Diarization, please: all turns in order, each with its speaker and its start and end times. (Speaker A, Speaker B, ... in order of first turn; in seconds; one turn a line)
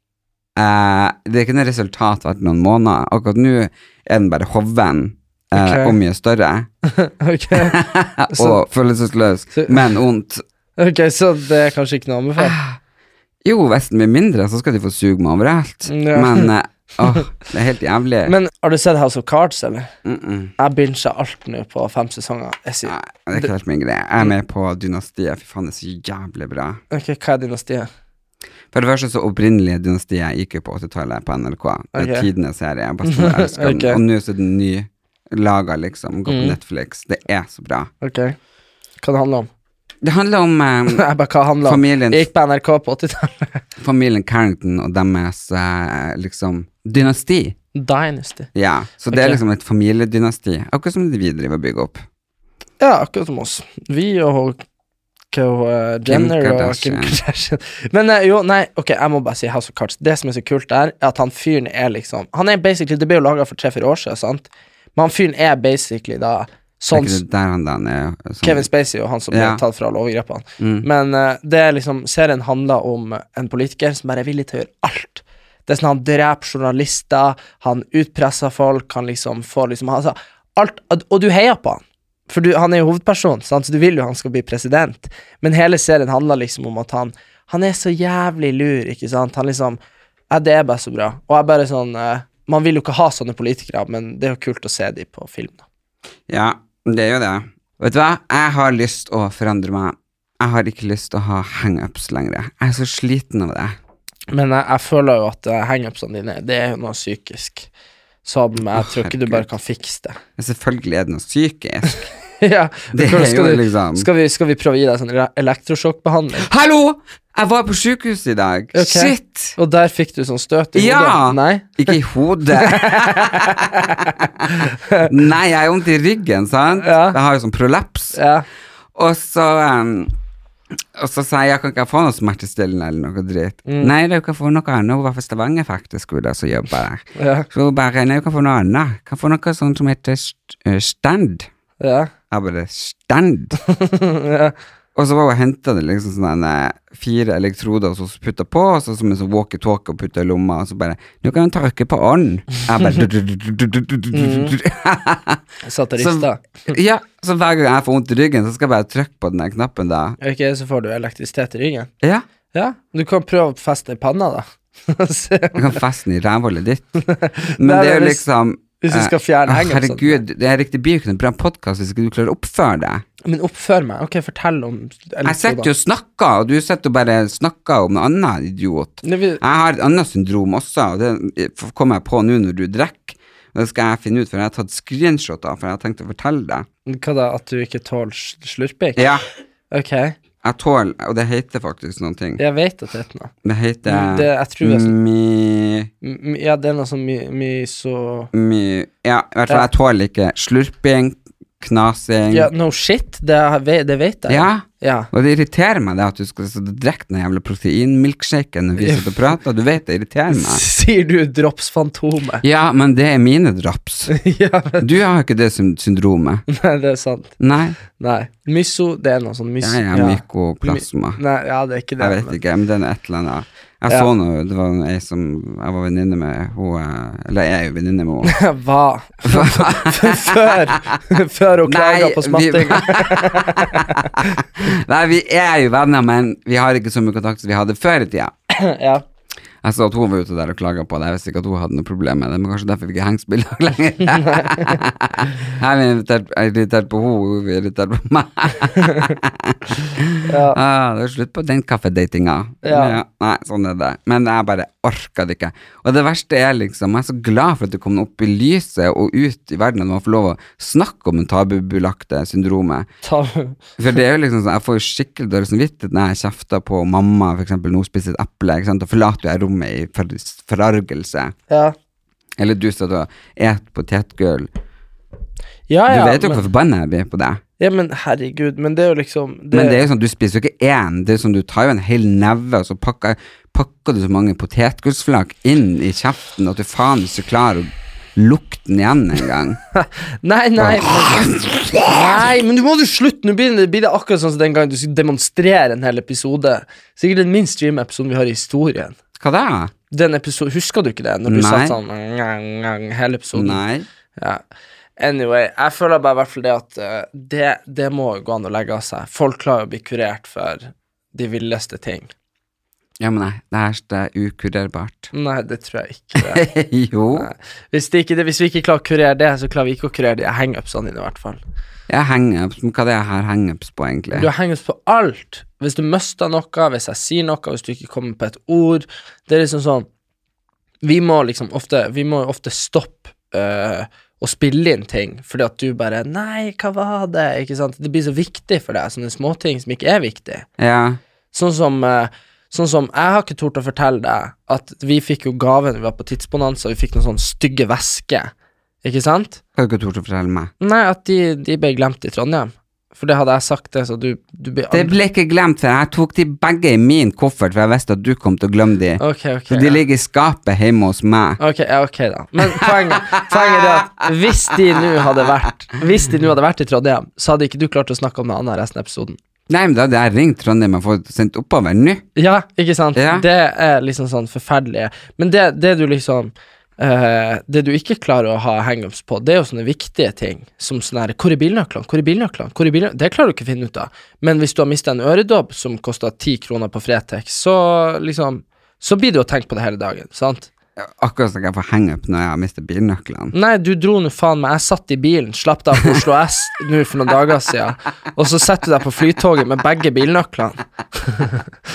Speaker A: 0.6-6.7
Speaker B: 5.5-6.0
Speaker B: 6.8-7.8
Speaker A: 7.5-10.4
Speaker B: 8.3-8.6
Speaker B: 9.5-9.9
Speaker B: 10.8-12.6
Speaker A: 12.4-12.8
Speaker A: 13.4-18.3
Speaker B: 15.9-16.5
Speaker B: 18.2-19.9
Speaker A: 20.0-20.5
Speaker B: 20.6-23.5
Speaker A: 22.8-26.8
Speaker B: 26.9-27.9
Speaker A: 28.7-37.9
Speaker B: 31.9-32.3
Speaker B: 33.0-34.0
Speaker B: 36.3-36.5
Speaker B: 38.0-38.4
Speaker B: 39.0-39.5
Speaker A: 40.0-41.0
Speaker B: 40.9-43.6
Speaker A: 41.6-42.3
Speaker A: 43.8-47.5
Speaker B: 47.7-48.5
Speaker A: 48.5-52.0
Speaker B: 49.1-49.4
Speaker B: 52.8-54.6
Speaker B: 55.3-67.2
Speaker A: 56.1-57.2
Speaker A: 66.9-68.7
Speaker B: 68.4-89.8
Speaker A: 69.3-69.6
Speaker A: 70.6-70.9
Speaker B: 90.3-95.6
Speaker A: 96.3-103.8
Speaker B: 104.3-107.7
Speaker B: 108.2-110.2
Speaker A: 108.7-109.5
Speaker A: 110.4-112.1
Speaker B: 112.4-116.5
Speaker A: 112.9-114.1
Speaker A: 116.3-119.6
Speaker B: 118.7-121.9
Speaker A: 120.7-124.1
Speaker B: 122.6-125.1
Speaker A: 125.0-128.2
Speaker B: 126.8-127.2
Speaker B: 128.1-128.4
Speaker A: 128.9-130.1
Speaker A: 130.9-141.5
Speaker B: 133.7-133.9
Speaker B: 137.2-137.5
Speaker B: 141.8-142.1
Speaker A: 142.3-143.6
Speaker B: 143.7-144.5
Speaker A: 144.9-155.4
Speaker B: 154.1-154.6
Speaker B: 155.6-156.7
Speaker A: 156.0-160.2
Speaker B: 160.2-161.9
Speaker B: 162.5-165.7
Speaker A: 165.5-167.0
Speaker B: 167.0-168.2
Speaker A: 167.6-173.0
Speaker B: 168.8-170.2
Speaker B: 173.2-175.7
Speaker A: 175.2-186.7
Speaker B: 179.0-179.4
Speaker B: 186.9-189.0
Speaker A: 188.9-189.2
Speaker B: 189.7-190.2
Speaker A: 190.4-192.4
Speaker B: 192.4-193.3
Speaker A: 193.4-195.9
Speaker B: 193.8-194.9
Speaker B: 196.0-198.3
Speaker A: 198.3-202.5
Speaker B: 202.3-205.1
Speaker A: 204.3-210.6
Speaker B: 208.8-209.2
Speaker B: 210.3-212.4
Speaker A: 212.4-214.1
Speaker B: 214.1-214.8
Speaker A: 214.8-216.4
Speaker B: 216.5-217.3
Speaker A: 217.4-217.8
Speaker B: 217.9-222.4
Speaker A: 219.6-221.2
Speaker A: 222.0-228.4
Speaker B: 228.2-234.3
Speaker A: 229.2-231.0
Speaker A: 231.6-238.3
Speaker B: 238.5-239.0
Speaker A: 239.6-262.9
Speaker B: 244.1-244.8
Speaker B: 248.8-249.2
Speaker B: 250.2-250.6
Speaker B: 252.6-253.0
Speaker B: 263.0-263.6
Speaker A: 263.8-271.3
Speaker B: 271.5-271.7
Speaker A: 272.4-274.5
Speaker B: 275.7-276.4
Speaker A: 275.9-277.4
Speaker B: 277.6-279.8
Speaker A: 279.5-289.6
Speaker B: 289.7-291.3
Speaker A: 290.6-292.3
Speaker B: 291.9-298.9
Speaker A: 299.2-299.7
Speaker B: 299.9-303.6
Speaker A: 301.2-301.8
Speaker A: 303.3-303.9
Speaker B: 304.2-304.4
Speaker B: 305.0-312.1
Speaker A: 313.0-315.1
Speaker B: 315.1-316.4
Speaker A: 316.2-317.3
Speaker B: 317.1-321.4
Speaker A: 321.9-324.3
Speaker B: 324.1-329.9
Speaker B: 330.8-340.5
Speaker A: 340.6-341.0
Speaker B: 341.3-348.3
Speaker B: 348.8-349.4
Speaker A: 349.6-350.5
Speaker B: 350.6-354.9
Speaker A: 354.7-361.4
Speaker B: 359.0-359.8
Speaker B: 361.4-369.2
Speaker A: 362.4-364.5
Speaker A: 369.5-372.1
Speaker B: 372.1-390.5
Speaker A: 372.9-373.2
Speaker A: 390.8-393.3
Speaker B: 393.3-401.4